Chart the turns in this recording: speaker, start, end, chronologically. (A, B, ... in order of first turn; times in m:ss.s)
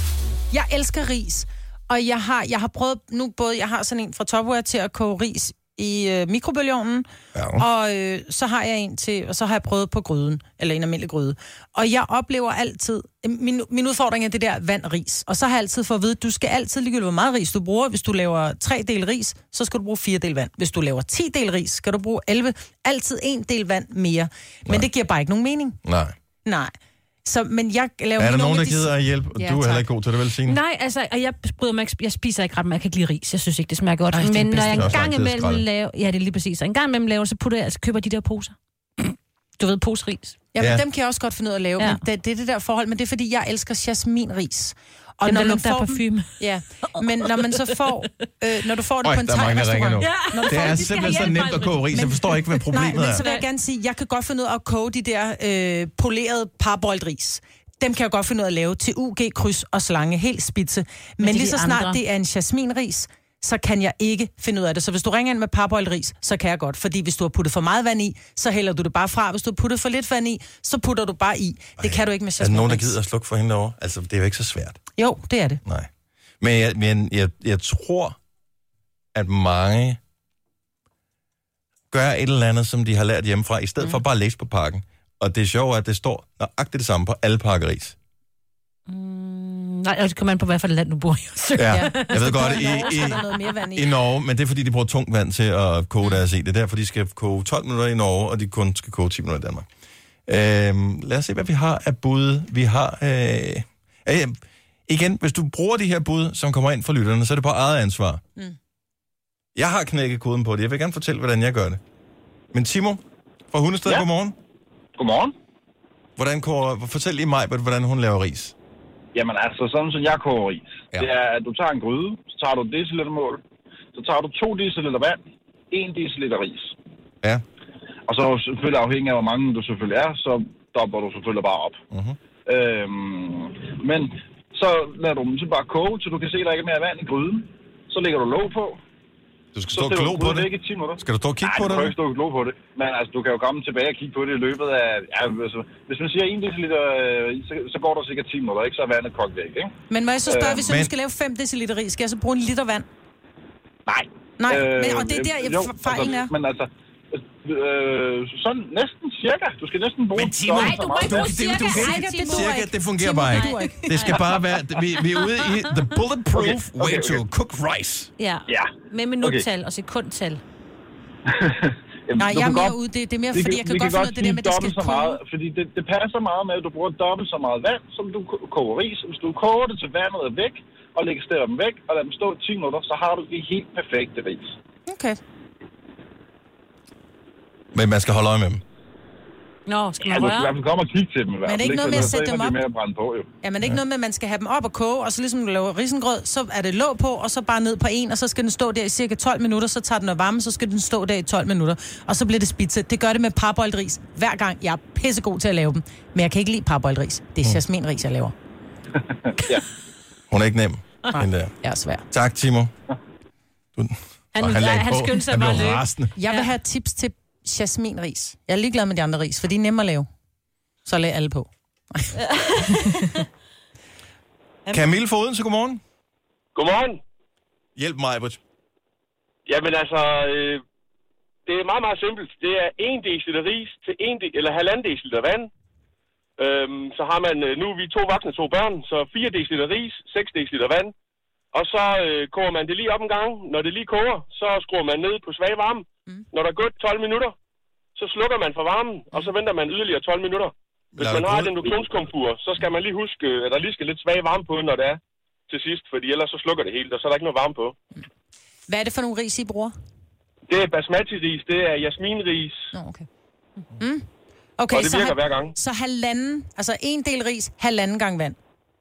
0:00.5-0:25.8 A
0:07.3-0:07.6 B
0:25.8-0:26.1 B
0:26.4-0:26.7 A
0:27.2-0:29.8 A
0:28.2-0:30.6 B
0:30.4-0:40.4 C
0:34.1-0:34.9 A
0:34.6-0:35.6 B
0:40.5-0:51.3 A
0:40.6-0:40.8 B
0:45.2-0:46.4 C
0:49.0-0:53.2 B
0:50.0-0:52.6 C
0:51.9-1:13.0 A
0:53.1-0:53.4 C
1:01.2-1:02.0 C
1:11.8-1:14.8 B
1:15.0-1:15.6 A
1:16.4-1:18.2 B
1:19.1-1:20.0 B
1:21.9-1:28.0 B
1:28.9-1:32.2 C
1:31.6-1:39.6 B
1:31.7-1:33.9 A
1:32.7-1:33.1 C
1:40.3-1:48.2 B
1:49.6-1:51.8 B
1:52.5-1:53.0 B
1:53.5-1:54.3 B
1:54.9-1:55.3 D
1:56.2-1:58.5 B
1:59.1-2:03.4 D
2:03.9-2:05.2 D
2:05.7-2:06.7 D
2:08.1-2:11.8 D
2:11.9-2:12.2 B
2:12.4-2:18.8 D
2:19.5-2:20.5 B
2:19.7-2:29.7 D
2:21.0-2:21.9 B
2:29.9-2:32.8 A
2:30.3-2:30.6 D
2:30.6-2:30.9 B
2:33.9-2:41.3 D
2:34.4-2:36.3 A
2:40.1-2:48.1 B
2:40.6-2:42.4 C
2:41.6-2:44.2 A
2:46.3-2:47.2 D
2:48.2-2:50.4 C
2:48.5-2:49.4 D
2:51.3-2:52.8 D
2:52.2-2:55.2 A
2:53.3-3:04.5 D
3:04.9-3:05.2 A
3:07.7-3:08.6 B
3:09.7-3:10.5 C
3:10.0-3:13.3 D
3:11.4-3:12.6 A
3:13.4-3:28.3 A
3:29.1-3:29.6 D
3:30.3-3:31.5 B
3:31.1-3:32.0 A
3:32.1-3:32.7 B
3:33.8-3:36.1 B
3:34.4-3:36.5 C
3:36.2-3:40.0 A
3:40.8-3:42.2 A
3:42.4-3:43.2 C
3:44.7-3:45.8 B
3:46.5-3:47.0 E
3:47.8-3:48.4 B
3:49.5-3:50.6 E
3:51.5-3:55.5 E
3:56.4-4:00.9 E
4:01.5-4:07.3 E
4:08.0-4:17.7 E
4:11.0-4:11.8 B
4:18.7-4:19.7 A
4:20.5-4:22.7 E
4:22.7-4:23.0 A
4:23.8-4:24.0 A
4:24.6-4:28.4 A
4:24.7-4:25.5 E